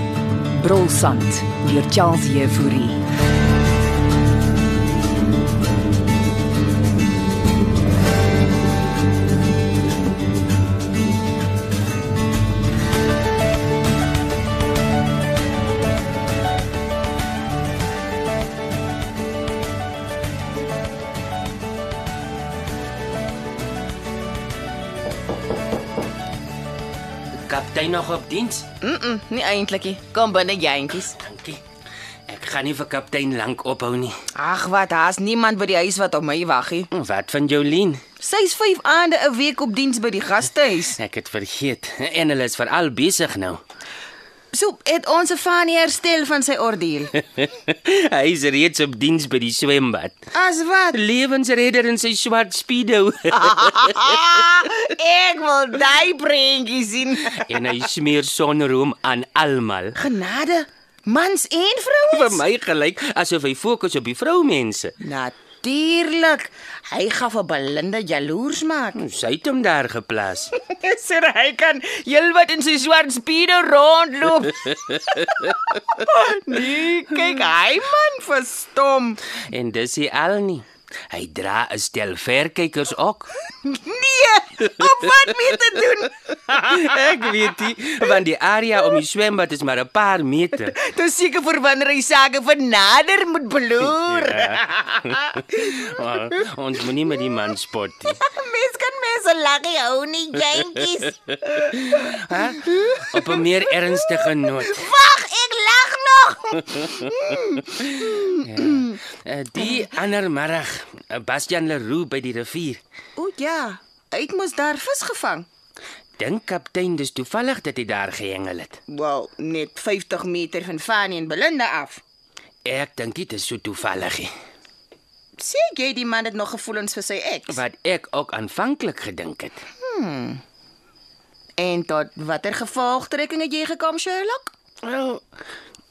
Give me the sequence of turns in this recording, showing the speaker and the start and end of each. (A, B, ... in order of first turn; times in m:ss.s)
0:00.5-0:03.0 A
0:27.5-0:28.6 B
0:28.8-0:31.2 C
0:31.2-0:31.6 B
0:32.3-0:34.1 B
0:34.3-0:36.9 C
0:36.9-0:38.0 B
0:38.2-0:41.0 C
0:41.0-0:43.6 B
0:44.5-0:47.1 C
0:47.2-0:50.2 B
0:50.3-0:51.0 C
0:50.9-0:54.1 B
0:53.3-0:57.7 C
0:57.3-1:00.0 B
1:00.0-1:02.4 C
1:02.1-1:04.9 B
1:05.0-1:09.0 C
1:08.9-1:10.5 B
1:10.6-1:19.2 C
1:19.4-1:23.3 B
1:23.6-1:26.4 C
1:26.4-1:30.7 B
1:30.6-1:35.6 C
1:34.2-1:38.2 B
1:38.1-1:43.4 C
1:41.5-1:44.9 B
1:44.3-1:48.4 C
1:47.7-1:52.8 B
1:53.2-1:55.5 C
1:56.2-1:58.8 B
1:58.9-2:02.0 C
2:02.6-2:04.3 B
2:05.4-2:07.6 C
2:07.5-2:09.6 B
2:09.8-2:10.4 C
2:11.6-2:14.5 C
2:14.8-2:15.2 B